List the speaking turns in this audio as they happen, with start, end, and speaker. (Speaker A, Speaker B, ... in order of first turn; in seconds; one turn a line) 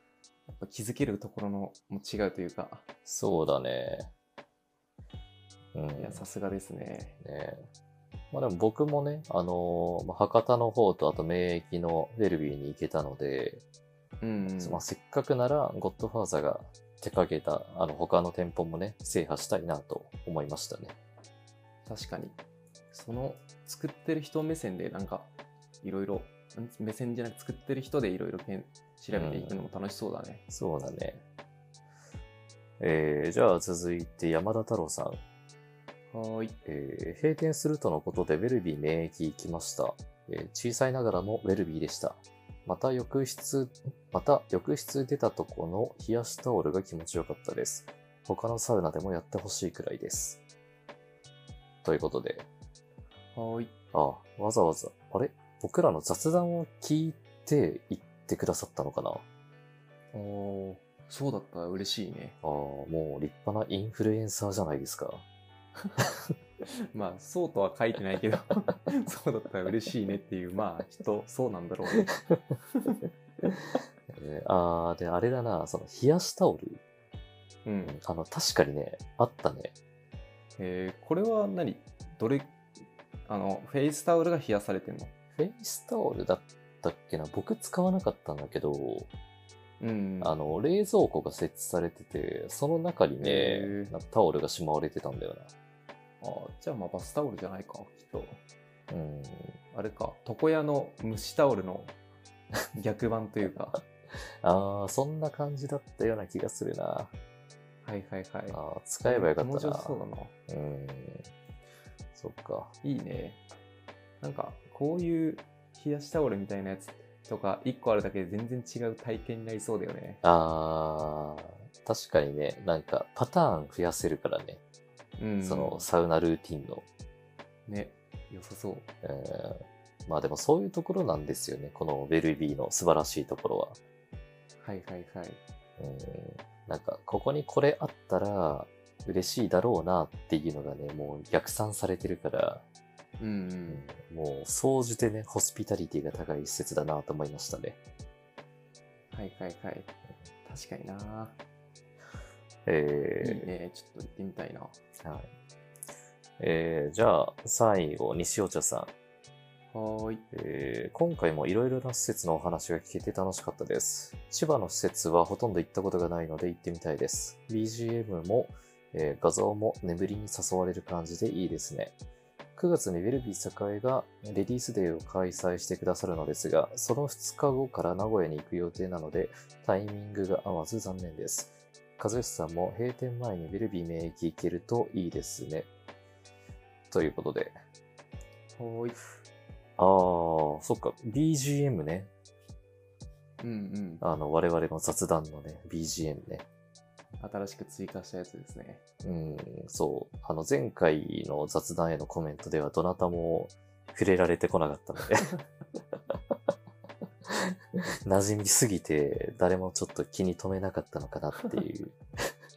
Speaker A: 0.5-2.8
Speaker B: 3.0-4.1
Speaker B: 5.7-6.2
Speaker A: 6.0-7.2
Speaker B: 7.2-7.7
Speaker B: 8.3-13.6
Speaker A: 14.2-14.8
Speaker B: 14.5-20.9
Speaker A: 21.8-22.4
Speaker A: 22.9-25.3
Speaker A: 25.8-30.4
Speaker B: 29.1-29.6
Speaker B: 30.5-31.2
Speaker B: 32.8-35.2
Speaker A: 36.1-36.6
Speaker B: 36.6-50.4
Speaker B: 51.8-52.5
Speaker A: 53.3-53.7
Speaker B: 53.9-59.2
Speaker A: 60.1-62.4
Speaker B: 62.4-65.2
Speaker A: 66.7-72.1
Speaker B: 74.1-76.8
Speaker A: 77.6-77.9
Speaker B: 77.8-79.7
Speaker A: 80.6-82.6
Speaker A: 83.2-85.1
Speaker B: 85.4-89.1
Speaker A: 89.8-90.4
Speaker B: 90.2-95.5
Speaker A: 93.2-93.9
Speaker A: 96.2-98.4
Speaker B: 98.9-99.6
Speaker A: 99.7-101.9
Speaker A: 102.7-103.8
Speaker B: 104.4-107.1
Speaker A: 107.8-110.3
Speaker B: 108.5-111.3
Speaker B: 112.1-112.7
Speaker A: 112.8-113.4
Speaker A: 114.2-120.2
Speaker B: 120.2-124.6
Speaker A: 125.2-125.8
Speaker B: 125.4-126.8
Speaker A: 127.7-128.9
Speaker B: 129.0-133.8
Speaker A: 134.6-135.4
Speaker B: 135.8-142.6
Speaker A: 143.2-143.8
Speaker B: 143.7-147.8
Speaker A: 149.1-149.9
Speaker A: 150.4-151.4
Speaker B: 152.7-153.5
Speaker A: 153.2-154.8
Speaker B: 155.0-155.3
Speaker B: 156.4-158.9
Speaker A: 159.7-160.2
Speaker B: 160.3-171.9
Speaker B: 172.6-185.7
Speaker B: 186.9-187.5
Speaker A: 188.6-189.0
Speaker B: 189.8-192.1
Speaker A: 193.4-194.0
Speaker B: 194.0-196.4
Speaker A: 197.2-198.8
Speaker B: 199.0-205.3
Speaker B: 207.3-212.3